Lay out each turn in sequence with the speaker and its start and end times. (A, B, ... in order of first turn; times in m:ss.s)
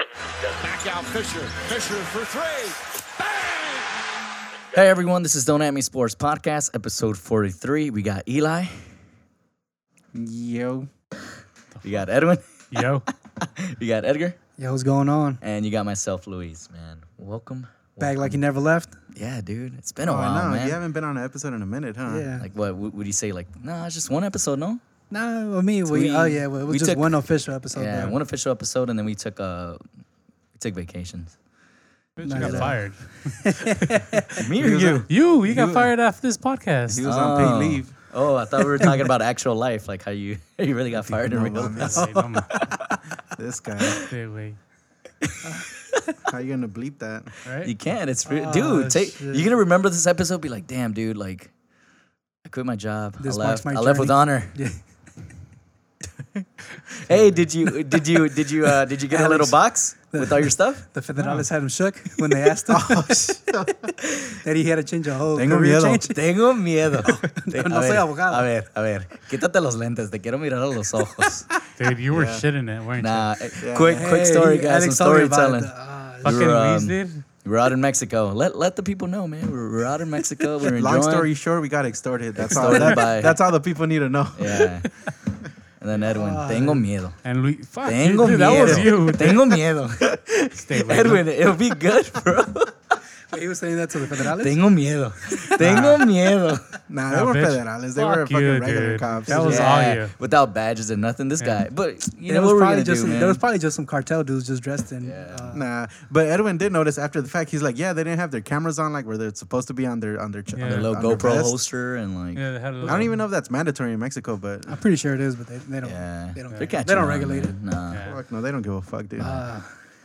0:00.6-0:03.8 A
0:04.7-0:08.9 B
0:10.1-0:10.9 C
0:11.7-0:12.1 D
0:11.8-0:12.8 B
0:12.7-0:13.0 D
0:13.4-0:14.4 B
0:14.6-0:15.4 E
0:15.4-0:18.4 B
0:18.0-0:19.0 E
0:19.1-0:20.8 B
0:20.0-0:22.3 C
0:22.0-0:22.5 E
0:22.4-0:24.8 B
0:25.1-0:28.2 E
0:25.8-0:29.8 B
0:30.5-0:31.4 B
0:32.2-0:34.0 D
0:32.2-0:34.3 E
0:32.3-0:32.7 B
0:34.3-0:35.1 B
0:34.4-0:35.9 C
0:35.1-0:37.0 D
0:36.9-0:37.9 C
0:37.0-0:42.1 B
0:41.2-0:42.1 C
0:41.8-0:42.6 D
0:41.9-0:42.5 E
0:43.3-0:44.0 C
0:44.0-0:44.6 D
0:46.2-0:47.3 C
0:47.4-0:47.7 D
0:47.6-0:51.5 B
0:48.2-0:49.4 E
0:52.4-0:54.6 B
0:53.2-0:54.8 E
0:57.0-1:00.9 B
0:59.1-1:03.5 E
1:01.2-1:01.5 D
1:02.7-1:03.9 C
1:04.4-1:06.2 E
1:05.3-1:06.1 C
1:06.1-1:11.5 B
1:07.0-1:08.5 E
1:11.8-1:13.3 D
1:12.1-1:12.4 C
1:13.0-1:21.3 B
1:13.6-1:14.1 C
1:13.8-1:16.4 E
1:16.2-1:17.2 D
1:20.7-1:24.6 C
1:22.4-1:23.4 B
1:22.6-1:23.0 E
1:24.4-1:25.1 B
1:25.8-1:27.2 B
1:26.0-1:26.9 E
1:27.2-1:29.4 D
1:27.8-1:32.7 B
1:30.6-1:31.2 D
1:33.3-1:34.6 E
1:34.2-1:36.7 B
1:35.6-1:36.0 C
1:35.6-1:36.0 D
1:36.9-1:39.7 C
1:37.1-1:40.1 D
1:39.3-1:39.6 E
1:39.3-1:43.4 B
1:41.4-1:41.6 D
1:42.2-1:45.6 E
1:45.0-1:45.5 B
1:45.5-1:51.6 C
1:50.6-1:50.9 D
1:50.6-1:52.5 B
1:52.3-1:53.2 D
1:52.8-1:54.8 C
1:54.7-1:57.6 E
1:55.8-1:58.0 B
1:56.5-1:56.8 D
1:57.9-1:58.2 D
1:58.0-1:59.4 C
1:59.2-1:59.4 B
1:59.2-1:59.7 E